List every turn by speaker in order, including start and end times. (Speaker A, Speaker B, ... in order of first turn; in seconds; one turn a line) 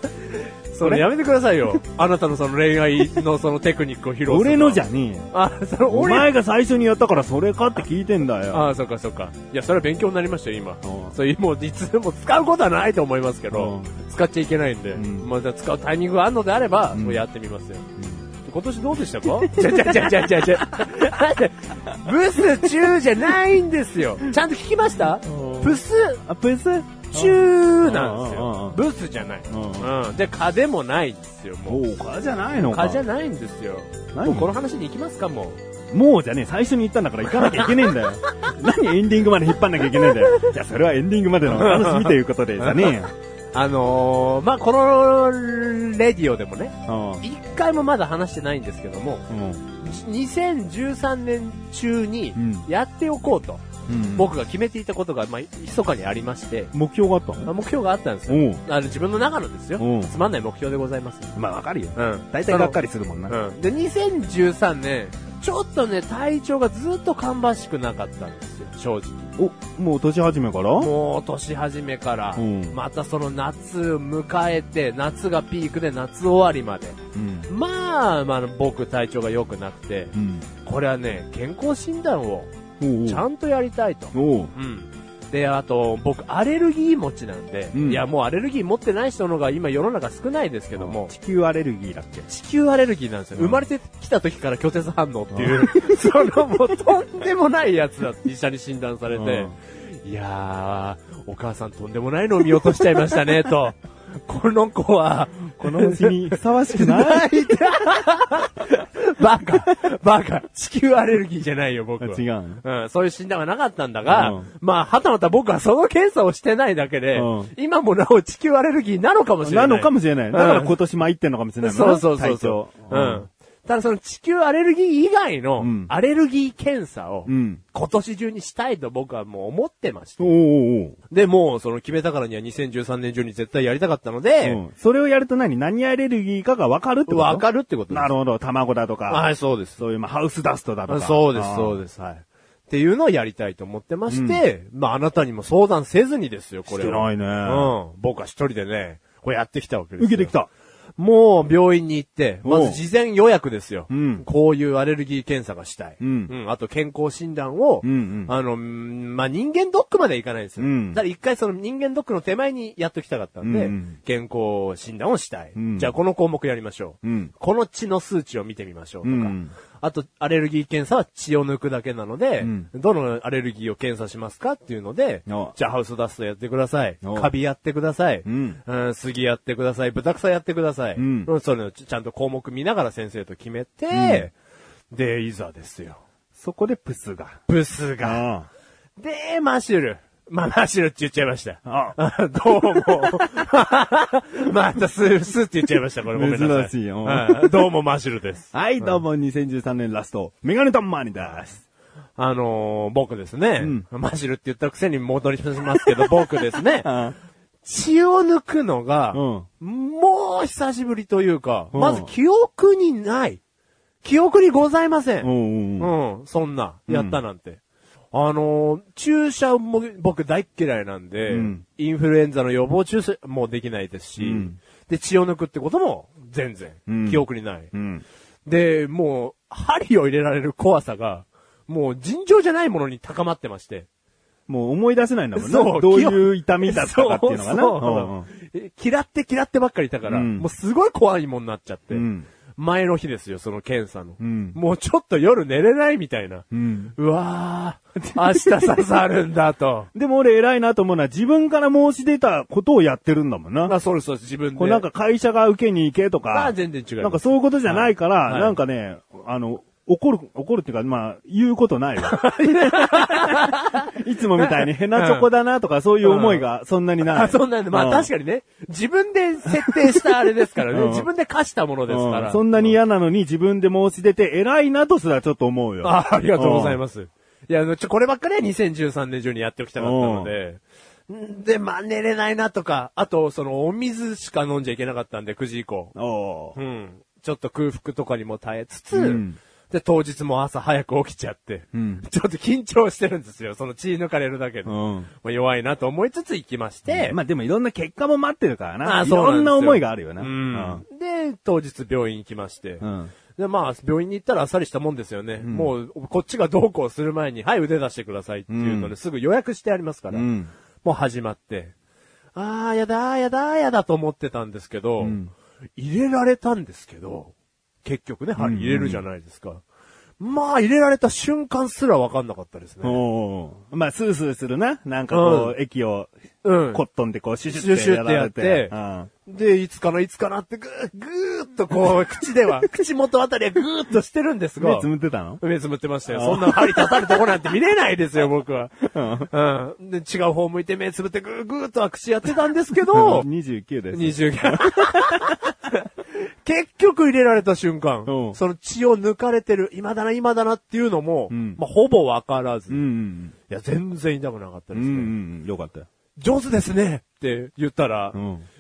Speaker A: 0.3-4.8
Speaker B: 4.3-5.3
Speaker A: 5.3-6.3
Speaker B: 5.9-8.7
Speaker A: 8.5-17.9
Speaker B: 10.8-11.2
Speaker B: 13.5-13.9
Speaker B: 14.9-15.3
Speaker B: 16.9-17.2
Speaker B: 18.0-18.2
Speaker A: 18.5-26.2
Speaker B: 19.5-20.4
Speaker B: 25.2-28.8
Speaker A: 27.1-31.8
Speaker B: 29.5-29.9
Speaker B: 31.7-33.0
Speaker A: 32.6-35.6
Speaker B: 34.1-34.5
Speaker B: 35.9-43.1
Speaker A: 37.3-37.9
Speaker A: 41.5-43.0
Speaker A: 43.5-49.3
Speaker B: 46.9-47.2
Speaker B: 49.3-49.6
Speaker A: 49.8-56.7
Speaker B: 52.4-52.7
Speaker B: 53.9-54.3
Speaker B: 56.7-57.5
Speaker A: 57.5-61.3
Speaker B: 58.3-58.6
Speaker B: 59.8-60.1
Speaker B: 61.4-63.4
Speaker A: 62.0-69.3
Speaker B: 69.4-70.9
Speaker A: 70.8-82.5
Speaker B: 72.4-72.8
Speaker B: 77.2-77.5
Speaker B: 80.2-80.5
Speaker B: 82.8-83.2
Speaker A: 83.0-91.1
Speaker B: 84.1-84.5
Speaker B: 87.7-88.0
Speaker B: 90.8-92.3
Speaker A: 92.3-120.7
Speaker B: 93.4-93.7
Speaker B: 95.3-96.2
Speaker B: 99.1-99.5
Speaker B: 105.6-107.6
Speaker B: 112.0-112.6
Speaker B: 114.1-114.5
Speaker B: 117.1-117.5
Speaker B: 119.4-123.3
Speaker A: 121.6-130.3
Speaker B: 125.6-125.9
Speaker B: 127.3-127.6
Speaker B: 130.2-131.0
Speaker A: 131.1-134.6
Speaker B: 134.4-141.8
Speaker A: 137.1-138.1
Speaker A: 139.1-139.8
Speaker A: 140.9-150.3
Speaker B: 144.1-144.4
Speaker B: 146.7-147.7
Speaker B: 150.0-150.5
Speaker A: 151.0-184.3
Speaker B: 152.4-152.8
Speaker B: 153.9-154.2
Speaker B: 156.0-156.3
Speaker B: 157.8-158.3
Speaker B: 160.6-161.0
Speaker B: 163.4-164.0
Speaker B: 165.6-165.9
Speaker B: 167.0-167.3
Speaker B: 169.0-169.5
Speaker B: 172.4-172.7
Speaker B: 175.3-175.5
Speaker B: 177.0-177.3
Speaker B: 178.3-178.6
Speaker B: 181.0-181.3
Speaker B: 183.9-184.3
Speaker A: 184.9-186.0
Speaker B: 186.4-187.4
Speaker A: 187.5-188.2
Speaker B: 188.0-188.5
Speaker A: 189.0-199.0
Speaker B: 191.7-192.0
Speaker B: 192.5-193.2
Speaker B: 196.1-197.7
Speaker B: 198.5-201.6
Speaker A: 202.2-206.9
Speaker B: 203.6-203.8
Speaker B: 205.8-206.2
Speaker B: 206.8-207.2
Speaker A: 207.6-213.4
Speaker B: 209.1-209.5
Speaker B: 211.7-212.1
Speaker A: 214.0-217.6
Speaker B: 215.2-215.9
Speaker B: 216.9-217.2
Speaker A: 218.1-227.7
Speaker B: 221.3-221.6
Speaker B: 224.2-224.6
Speaker B: 226.9-228.0
Speaker A: 228.5-233.9
Speaker B: 234.5-238.3
Speaker A: 235.4-249.9
Speaker B: 240.1-240.5
Speaker B: 241.9-242.3
Speaker B: 244.2-244.6
Speaker B: 246.5-246.9
Speaker B: 248.1-248.9
Speaker B: 249.9-253.8
Speaker A: 253.7-254.9
Speaker B: 254.6-268.1
Speaker A: 256.3-258.6
Speaker A: 262.0-265.3
Speaker A: 266.0-266.4
Speaker A: 267.0-272.8
Speaker B: 269.7-270.1
Speaker B: 270.7-271.1
Speaker B: 271.9-276.8
Speaker A: 275.8-285.9
Speaker B: 279.8-280.3
Speaker B: 285.9-286.6
Speaker A: 286.6-297.2
Speaker B: 288.9-289.4
Speaker B: 291.7-292.1
Speaker B: 294.7-295.1
Speaker B: 296.9-300.8
Speaker A: 298.8-302.8
Speaker B: 302.8-303.1
Speaker A: 303.4-310.3
Speaker B: 305.4-305.7
Speaker B: 308.5-308.9
Speaker B: 310.1-310.5
Speaker A: 310.8-311.7
Speaker A: 312.4-315.2
Speaker B: 315.0-315.3
Speaker A: 315.8-317.3
Speaker A: 317.8-319.6
Speaker B: 318.4-319.0
Speaker A: 320.2-323.0
Speaker B: 322.8-326.1
Speaker A: 325.1-325.6
Speaker A: 326.4-326.8
Speaker B: 326.7-329.1
Speaker A: 327.5-328.7
Speaker A: 329.3-334.9
Speaker B: 334.6-335.4
Speaker A: 335.4-343.3
Speaker B: 336.1-337.2
Speaker B: 338.9-339.3
Speaker B: 342.9-345.4
Speaker A: 343.9-352.8
Speaker B: 348.1-348.4
Speaker B: 351.3-351.6
Speaker B: 352.7-353.4
Speaker A: 353.5-355.1
Speaker B: 354.7-355.9
Speaker A: 356.2-358.2
Speaker B: 358.1-358.5